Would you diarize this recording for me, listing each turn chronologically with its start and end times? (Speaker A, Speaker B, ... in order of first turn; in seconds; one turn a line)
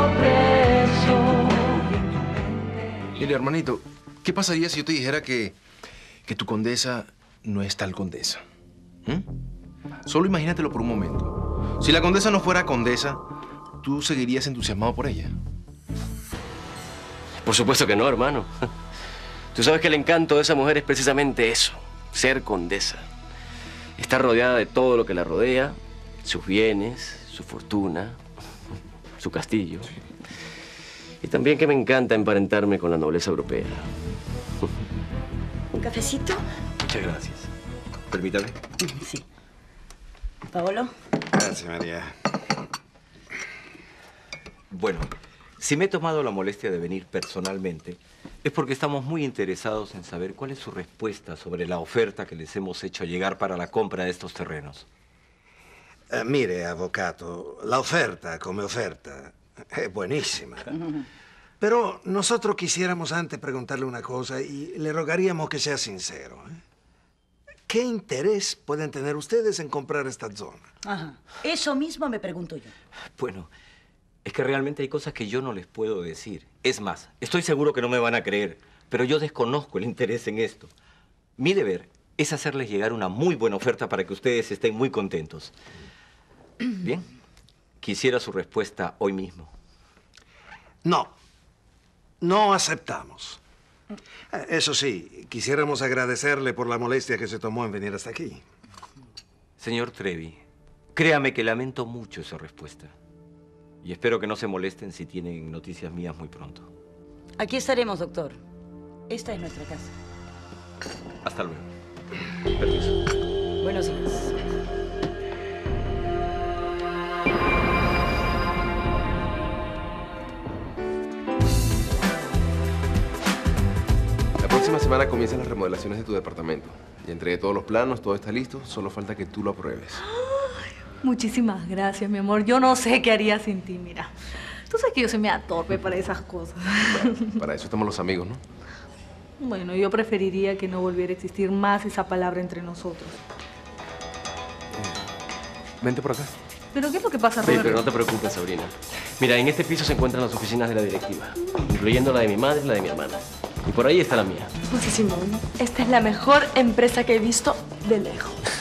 Speaker A: 3.2-5.5
Speaker A: 6.2-8.4
Speaker A: 10.1-13.2
Speaker A: 13.8-15.3
Speaker B: 17.4-18.5
Speaker B: 19.5-23.1
Speaker B: 24.0-28.2
Speaker B: 29.2-29.9
Speaker B: 31.2-33.9
Speaker C: 35.8-36.4
Speaker D: 36.9-37.5
Speaker D: 38.1-38.6
Speaker C: 38.9-39.2
Speaker C: 40.5-40.9
Speaker E: 41.3-42.1
Speaker D: 44.7-54.9
Speaker E: 56.1-60.7
Speaker E: 61.6-66.6
Speaker E: 67.7-70.6
Speaker C: 70.8-72.7
Speaker D: 73.2-73.5
Speaker D: 74.2-80.7
Speaker D: 81.4-85.5
Speaker D: 86.8-87.0
Speaker D: 87.8-89.5
Speaker E: 90.8-91.1
Speaker E: 92.2-93.4
Speaker E: 94.3-98.4
Speaker D: 99.6-100.4
Speaker D: 100.9-102.9
Speaker D: 103.8-106.7
Speaker C: 107.4-108.4
Speaker C: 109.1-109.9
Speaker D: 111.2-111.7
Speaker D: 112.5-113.0
Speaker C: 113.6-114.4
Speaker A: 128.5-129.9
Speaker F: 130.0-134.1
Speaker F: 134.7-137.4
Speaker A: 137.4-138.4
Speaker F: 139.4-143.2
Speaker A: 145.8-146.3
Speaker F: 146.7-147.8
Speaker B: 147.4-154.5
Speaker G: 154.7-158.4